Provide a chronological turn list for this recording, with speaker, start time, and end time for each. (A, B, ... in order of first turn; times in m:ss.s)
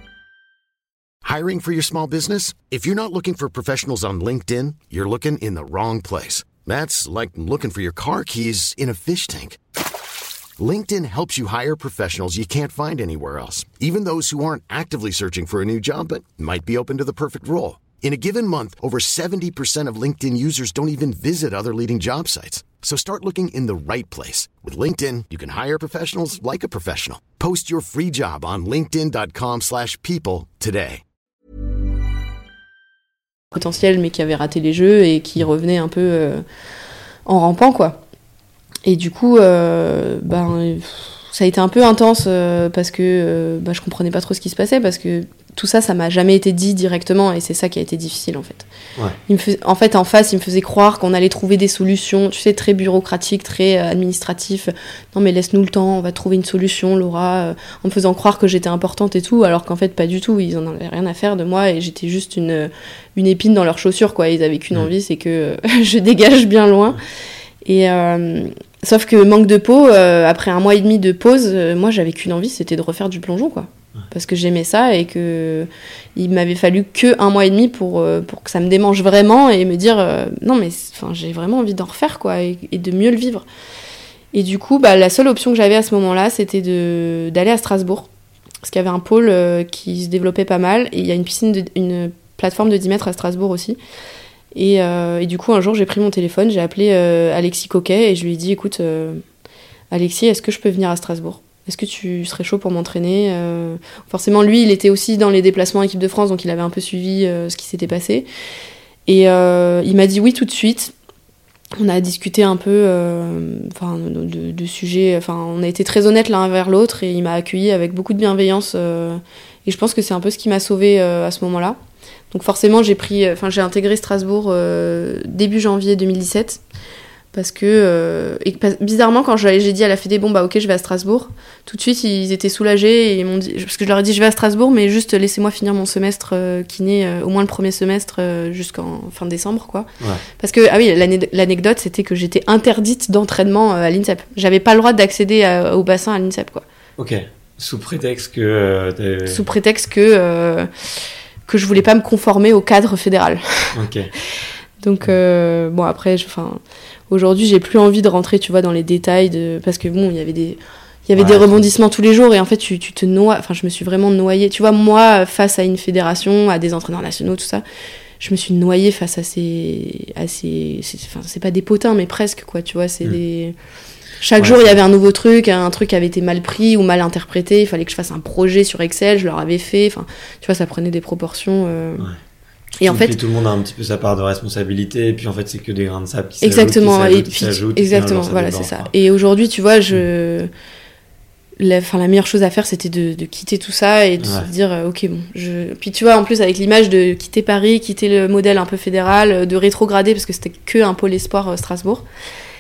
0:01.2-0:09.6 A
0:10.6-0:31.0 A
0:33.5-0:36.4 B
0:37.3-0:38.0 B
0:38.8-0:48.7 B
0:49.3-1:07.0 B
1:07.6-1:23.4 B
1:24.3-1:28.1 B
1:28.6-1:33.8 B
1:34.5-1:39.2 B
1:39.9-1:48.3 B
1:49.1-1:50.9 B
1:51.8-2:01.8 B
2:02.3-2:06.6 B
2:07.3-2:19.9 B
2:20.4-2:26.6 B
2:27.0-2:29.4 C
2:29.3-2:30.7 B
2:31.5-2:33.7 B
2:33.7-2:34.1 C
2:34.8-2:36.6 B
2:37.1-2:47.6 B
2:41.2-2:41.7 C
2:48.2-2:53.6 B
2:54.2-3:02.1 B
2:54.4-2:54.8 C
3:02.8-3:03.2 B
3:02.8-3:08.9 C
3:06.4-3:10.5 B
3:11.6-3:22.0 B
3:14.2-3:14.5 C